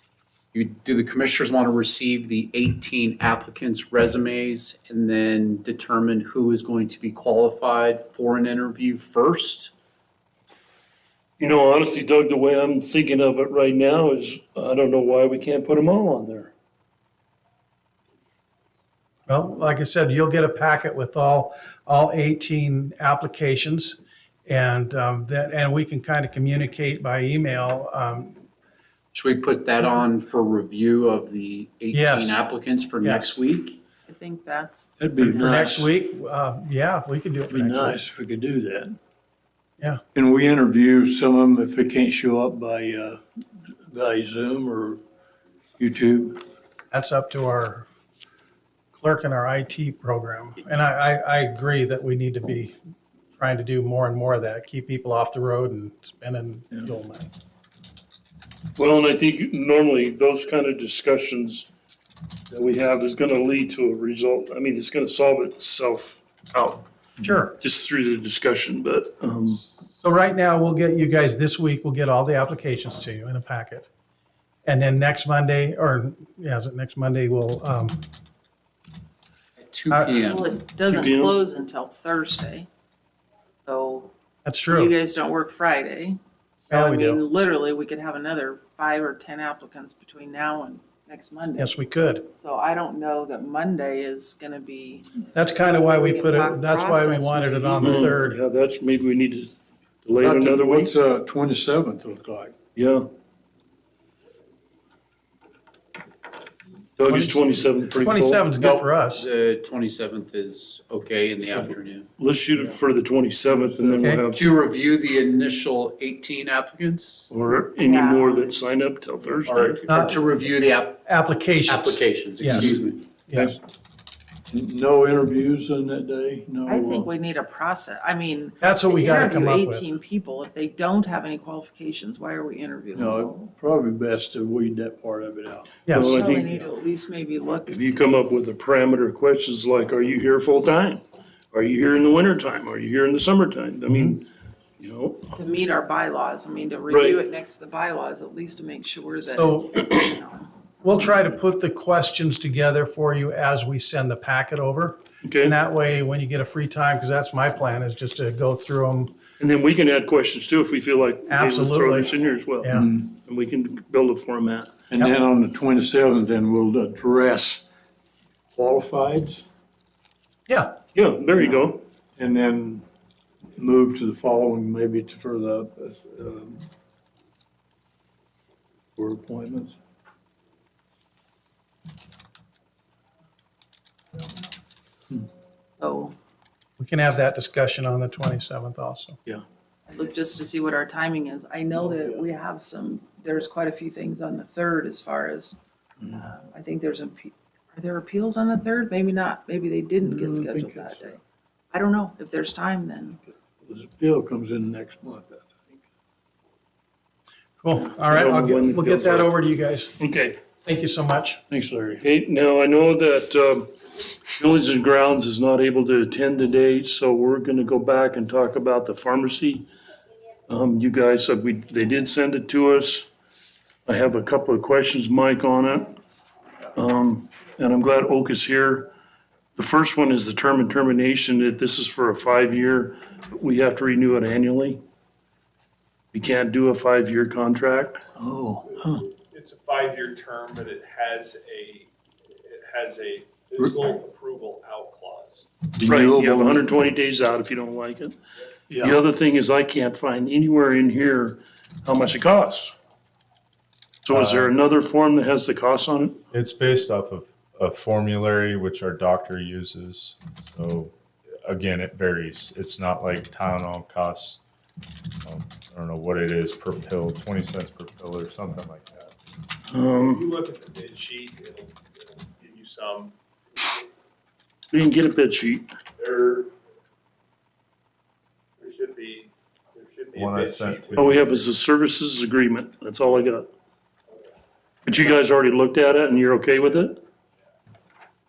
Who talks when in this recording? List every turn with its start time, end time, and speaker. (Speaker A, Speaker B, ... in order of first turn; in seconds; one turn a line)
Speaker A: 0.5-9.7
Speaker B: 11.4-16.5
Speaker C: 19.3-28.4
Speaker A: 29.1-33.8
Speaker C: 31.9-32.4
Speaker C: 33.0-33.4
Speaker D: 34.1-35.7
Speaker E: 35.0-35.9
Speaker C: 35.2-38.0
Speaker E: 37.5-38.9
Speaker E: 40.1-43.2
Speaker E: 43.9-45.0
Speaker E: 45.8-46.4
Speaker C: 46.9-47.9
Speaker C: 48.9-52.8
Speaker C: 53.4-57.3
Speaker B: 58.8-61.7
Speaker B: 62.5-66.8
Speaker C: 67.2-67.5
Speaker B: 67.6-69.6
Speaker C: 69.8-73.9
Speaker C: 74.6-78.0
Speaker A: 79.6-80.5
Speaker C: 79.9-80.2
Speaker D: 80.2-82.7
Speaker B: 80.9-81.4
Speaker D: 83.6-84.1
Speaker C: 84.4-84.9
Speaker D: 84.7-91.7
Speaker C: 86.7-87.2
Speaker C: 91.6-92.3
Speaker D: 92.3-95.2
Speaker C: 95.3-98.4
Speaker D: 95.8-98.1
Speaker B: 97.8-99.5
Speaker B: 100.0-100.9
Speaker E: 100.2-102.5
Speaker B: 102.7-103.1
Speaker B: 107.0-108.4
Speaker C: 107.0-109.3
Speaker A: 108.6-112.1
Speaker B: 112.2-114.4
Speaker E: 113.5-114.2
Speaker A: 114.3-117.3
Speaker B: 117.3-119.8
Speaker D: 117.8-118.4
Speaker A: 119.4-121.1
Speaker C: 119.9-120.2
Speaker C: 121.0-123.6
Speaker A: 121.7-123.0
Speaker E: 124.5-127.1
Speaker D: 126.7-133.3
Speaker C: 128.6-129.9
Speaker E: 132.9-135.8
Speaker C: 135.8-136.2
Speaker B: 135.9-136.7
Speaker D: 136.2-137.7
Speaker B: 137.7-144.2
Speaker C: 143.9-144.2
Speaker B: 144.8-145.3
Speaker D: 145.4-150.5
Speaker B: 146.9-147.2
Speaker C: 149.3-149.8
Speaker C: 150.8-159.2
Speaker B: 155.2-155.6
Speaker B: 159.4-164.7
Speaker C: 161.3-162.9
Speaker E: 164.9-167.7
Speaker E: 168.5-169.5
Speaker C: 170.5-170.7
Speaker B: 170.9-171.8
Speaker E: 172.2-172.8
Speaker E: 173.5-176.7
Speaker E: 179.0-179.8
Speaker D: 185.7-186.1
Speaker C: 186.8-189.2
Speaker D: 189.9-195.6
Speaker E: 191.9-192.2
Speaker D: 196.1-201.2
Speaker E: 200.0-201.1
Speaker D: 201.7-203.2
Speaker E: 203.6-205.8
Speaker C: 207.6-209.9
Speaker B: 208.1-209.3
Speaker B: 210.0-210.4
Speaker C: 210.6-211.4
Speaker E: 211.5-212.0
Speaker B: 212.0-219.7
Speaker B: 220.5-223.1
Speaker B: 223.8-226.0
Speaker B: 226.7-228.9
Speaker B: 229.5-234.8
Speaker B: 236.1-238.1
Speaker E: 238.2-239.0
Speaker F: 238.9-241.9
Speaker F: 242.5-245.6
Speaker E: 243.6-243.9
Speaker E: 245.7-246.7
Speaker B: 245.8-248.2
Speaker E: 248.7-249.0
Speaker B: 248.8-252.7
Speaker B: 254.0-256.2
Speaker G: 254.1-254.5
Speaker G: 256.3-260.9
Speaker G: 261.4-264.4
Speaker G: 265.2-269.1
Speaker B: 269.7-270.3
Speaker F: 270.0-273.9
Speaker B: 274.7-275.7
Speaker F: 276.0-276.5
Speaker F: 278.6-281.4
Speaker G: 280.2-281.1
Speaker B: 280.9-283.5
Speaker B: 284.8-287.0